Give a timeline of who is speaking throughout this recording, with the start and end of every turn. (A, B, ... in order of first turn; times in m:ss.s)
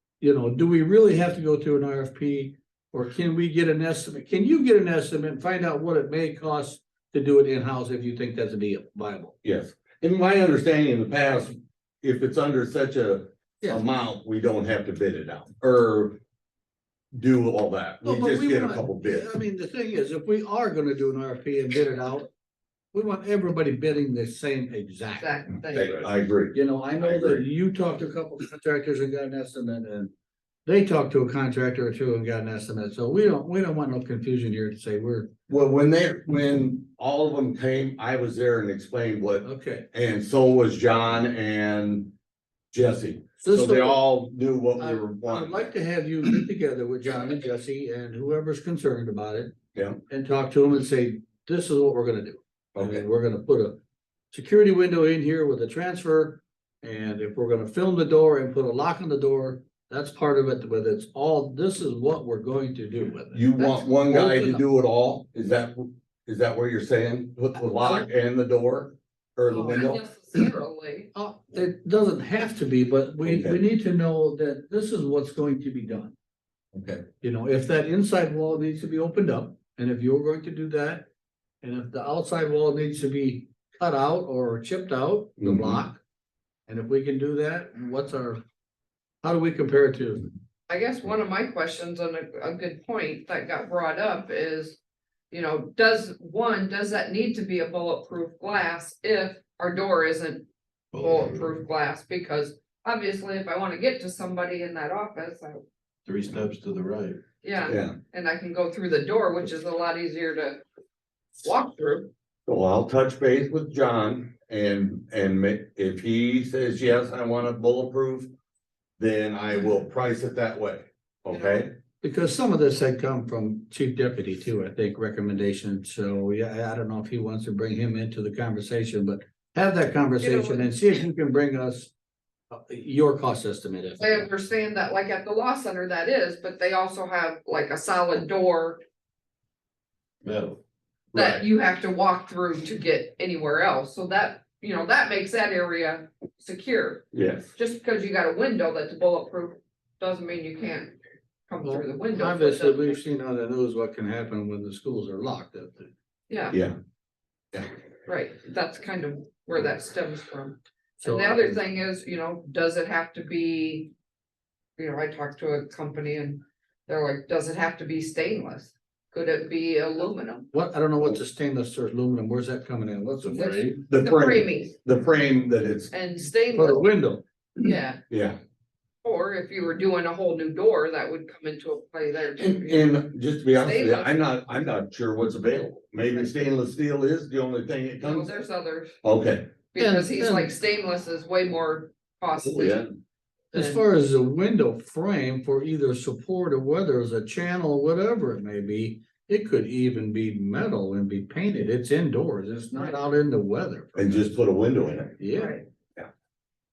0:00.2-0:09.3 A
0:09.4-0:16.2 B
0:17.1-0:19.3 B
0:18.0-0:22.3 A
0:22.9-0:25.5 A
0:25.2-0:26.1 C
0:25.7-0:27.4 B
0:26.5-0:30.1 A
0:30.6-0:35.3 A
0:35.5-0:42.1 B
0:39.4-0:39.9 A
0:42.7-0:45.7 B
0:43.4-0:44.0 A
0:44.8-0:49.5 A
0:50.1-0:53.8 A
0:52.8-0:53.0 B
0:54.3-1:04.7 A
1:03.3-1:10.0 B
1:07.6-1:08.1 A
1:09.5-1:11.1 C
1:11.1-1:16.1 A
1:13.2-1:13.6 B
1:16.7-1:21.0 A
1:21.6-1:26.0 A
1:25.4-1:25.8 B
1:26.7-1:28.4 A
1:29.2-1:30.3 A
1:30.7-1:34.8 C
1:35.3-1:45.6 C
1:40.9-1:41.5 D
1:46.0-1:47.2 D
1:47.4-1:50.6 C
1:47.6-1:48.0 B
1:51.4-1:52.1 C
1:52.5-1:58.3 B
1:59.0-2:01.7 B
2:01.3-2:01.6 C
2:02.0-2:11.9 A
2:10.2-2:11.0 C
2:12.5-2:14.3 A
2:14.0-2:18.8 C
2:20.2-2:20.6 D
2:21.1-2:21.4 B
2:21.1-2:31.0 C
2:27.1-2:27.5 B
2:31.5-2:33.0 C
2:31.6-2:35.9 A
2:36.3-2:36.6 C
2:38.0-2:43.9 C
2:41.0-2:41.6 A
2:44.8-2:50.5 C
2:50.5-2:53.8 A
2:53.2-2:53.8 D
2:53.4-2:54.7 C
2:53.9-2:55.9 B
2:55.9-2:56.8 C
2:56.5-2:57.2 A
2:57.6-2:58.0 C
2:58.1-2:58.4 B
2:59.0-3:03.0 C
3:02.4-3:08.3 B
3:03.6-3:04.2 C
3:08.0-3:08.9 C
3:09.0-3:09.5 B
3:09.7-3:12.9 C
3:09.8-3:10.5 A
3:12.4-3:12.9 B
3:13.5-3:24.3 A
3:13.5-3:13.8 C
3:24.0-3:25.2 B
3:25.2-3:25.6 A
3:25.3-3:25.6 C